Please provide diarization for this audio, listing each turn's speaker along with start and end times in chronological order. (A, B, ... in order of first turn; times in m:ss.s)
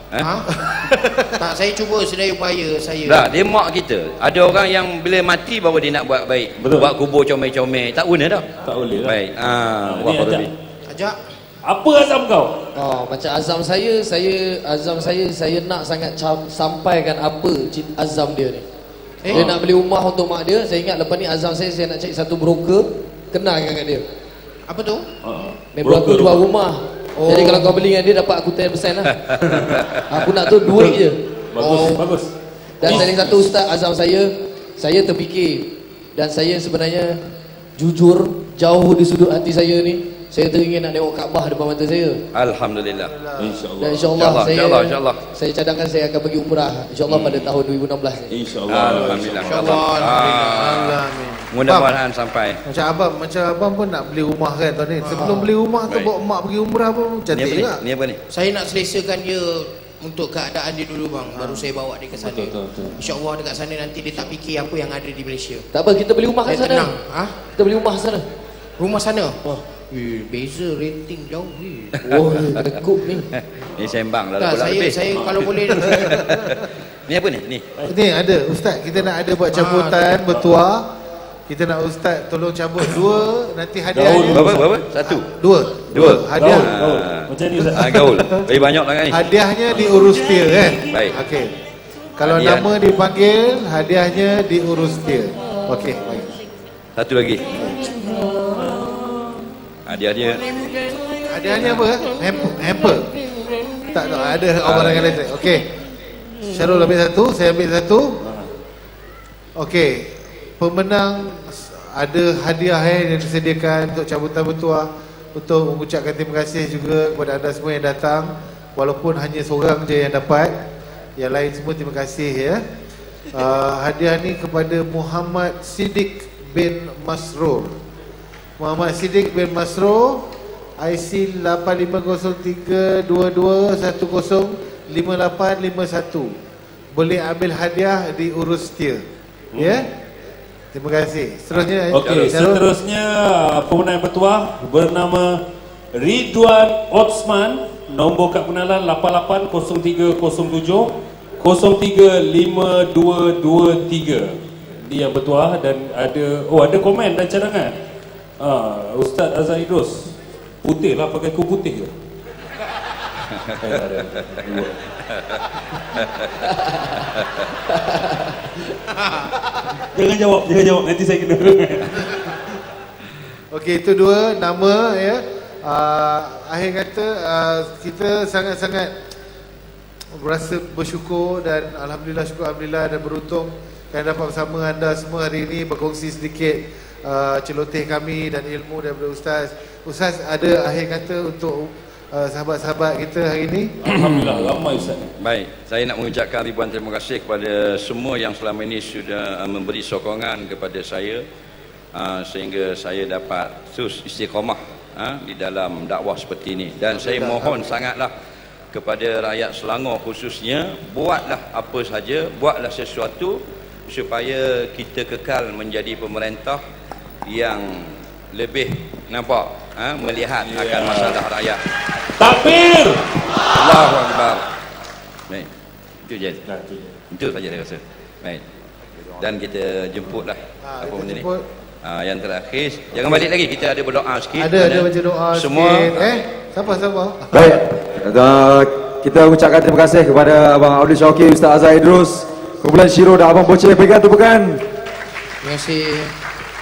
0:00.2-0:00.5 A
0:00.5-0:01.4 B
0:01.4-0:03.3 A
0:03.1-0:08.5 C
0:06.6-0:06.9 D
0:08.6-0:09.2 D
0:09.0-0:10.5 C
0:09.9-0:10.5 D
0:10.9-0:11.2 A
0:11.6-0:12.7 D
0:12.8-0:18.6 E
0:19.2-0:19.5 A
0:19.3-0:19.6 D
0:19.3-0:24.0 E
0:24.6-0:25.1 A
0:25.2-0:26.4 D
0:25.8-0:29.2 E
0:27.2-0:27.8 B
0:29.2-0:30.3 C
0:29.4-0:29.8 D
0:30.1-0:31.2 E
0:30.7-0:31.0 D
0:31.5-0:33.5 D
0:31.6-0:32.1 A
0:32.8-0:37.2 E
0:37.8-0:42.2 E
0:42.3-0:43.1 C
0:43.0-0:43.7 B
0:43.4-0:44.1 D
0:43.8-0:48.3 E
0:44.2-0:45.2 C
0:47.1-0:47.5 C
0:48.3-0:49.7 D
0:48.7-0:52.6 C
0:49.4-0:51.5 A
0:51.6-0:52.0 B
0:52.7-0:57.8 B
0:55.0-0:55.4 A
0:57.3-0:58.2 C
0:58.3-1:05.6 A
1:01.4-1:01.6 B
1:02.2-1:03.1 D
1:05.7-1:06.9 E
1:06.5-1:07.4 A
1:07.5-1:08.2 E
1:08.8-1:12.0 A
1:12.0-1:13.3 E
1:12.2-1:12.6 C
1:13.3-1:15.0 C
1:14.4-1:15.9 A
1:15.2-1:16.2 D
1:15.8-1:17.7 C
1:15.9-1:16.4 B
1:17.9-1:20.9 B
1:19.5-1:20.1 A
1:21.5-1:24.5 B
1:23.9-1:24.7 D
1:24.3-1:25.3 C
1:25.0-1:26.8 B
1:25.9-1:29.2 C
1:26.0-1:28.2 D
1:27.9-1:28.4 B
1:29.1-1:31.6 B
1:30.9-1:31.2 C
1:32.2-1:36.3 B
1:32.2-1:32.7 C
1:37.0-1:37.6 C
1:37.6-1:37.9 B
1:37.9-1:39.5 D
1:39.9-1:40.4 C
1:40.6-1:41.2 D
1:41.3-1:43.1 B
1:43.9-1:45.7 B
1:44.6-1:45.2 C
1:46.4-1:48.2 B
1:48.2-1:48.5 D
1:49.6-2:00.6 B
2:01.2-2:02.6 B
2:03.3-2:07.8 B
2:08.6-2:10.3 B
2:10.8-2:16.3 B
2:16.9-2:19.0 B
2:19.5-2:19.8 D
2:19.6-2:19.9 B
2:20.7-2:22.7 B
2:21.5-2:22.4 C
2:21.9-2:25.4 D
2:26.0-2:37.8 D
2:38.4-2:41.9 D
2:43.3-2:46.3 C
2:43.6-2:44.8 D
2:46.5-2:46.9 E
2:47.0-2:47.5 C
2:47.7-2:48.3 E
2:49.7-2:52.5 D
2:53.5-2:58.9 B
3:00.2-3:13.7 B
3:13.8-3:15.1 D
3:13.9-3:21.2 C
3:22.0-3:28.1 C
3:26.8-3:27.8 A
3:28.7-3:36.6 C
3:37.3-3:41.6 C
3:40.4-3:41.2 D
3:42.0-3:43.3 D
3:43.5-3:44.4 C
3:46.1-3:46.4 C
3:46.5-3:47.0 D
3:47.1-3:48.4 C
3:49.2-3:51.3 C
3:50.6-3:51.4 B
3:51.8-3:56.2 C
3:54.4-3:57.6 B
3:57.3-4:04.6 F
4:05.4-4:06.2 A